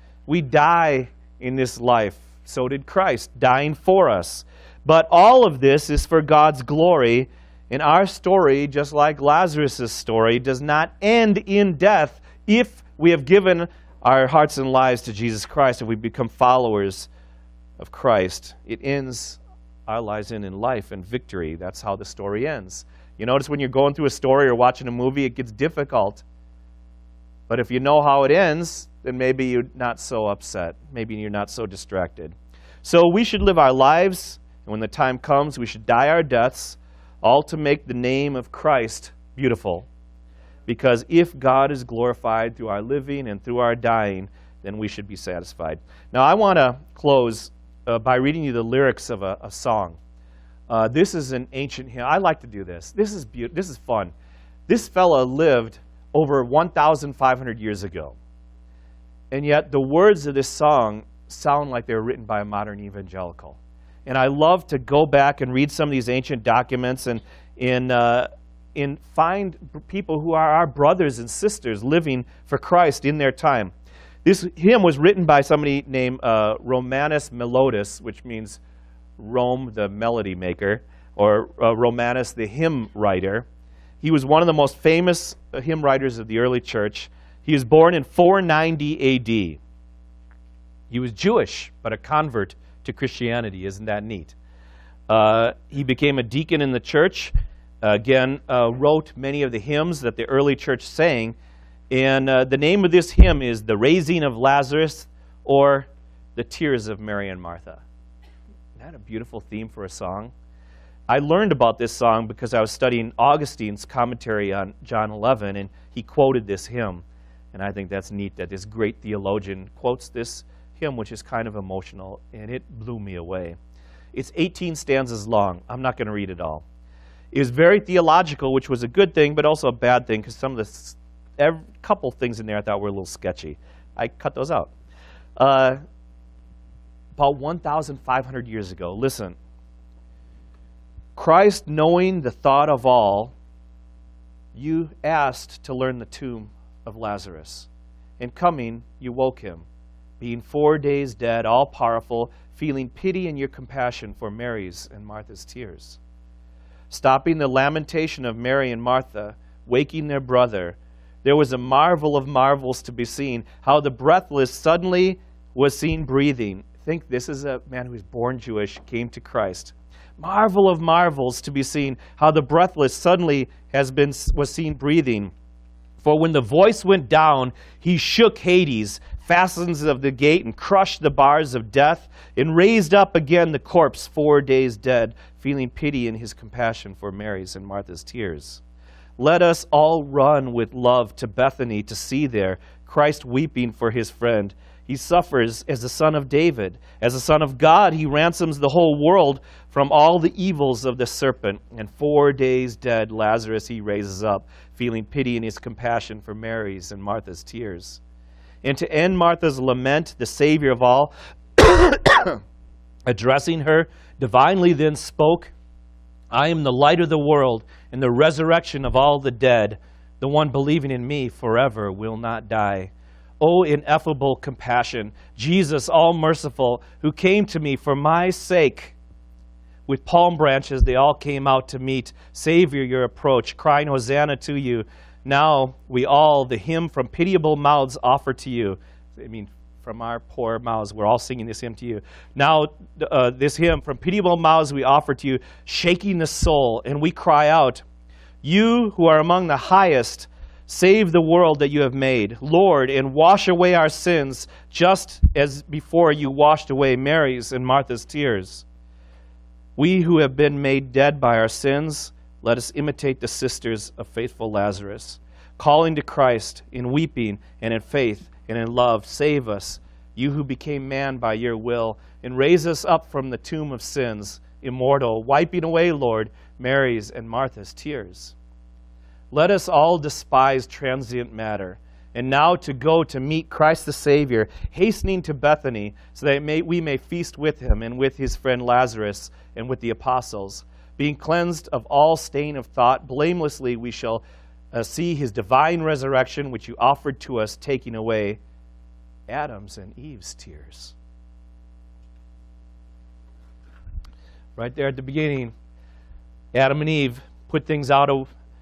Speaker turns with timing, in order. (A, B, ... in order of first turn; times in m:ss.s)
0:00.3-0:17.1 A
0:17.8-0:26.2 A
0:27.5-0:39.9 A
0:40.6-0:50.0 A
0:50.7-0:54.1 A
0:54.7-0:58.2 A
0:59.3-1:13.7 A
1:14.2-1:18.6 A
1:19.2-1:23.4 A
1:24.0-1:29.6 A
1:30.9-1:34.3 A
1:35.1-1:41.4 A
1:41.9-1:47.8 A
1:48.8-1:50.3 A
1:51.1-2:03.6 A
2:04.1-2:06.6 A
2:07.3-2:14.7 A
2:15.4-2:15.8 A
2:17.2-2:19.4 A
2:21.2-2:23.3 A
2:24.5-2:29.6 A
2:30.2-2:36.0 A
2:36.9-2:55.3 A
2:56.0-3:08.6 A
3:09.2-3:28.0 A
3:28.6-3:32.4 A
3:33.1-3:35.5 A
3:36.3-3:49.0 A
3:49.9-4:07.8 A
4:08.4-4:18.6 A
4:19.8-4:38.3 A
4:39.3-4:58.4 A
4:59.3-5:00.9 A
5:04.6-5:05.5 A
5:06.5-5:08.3 A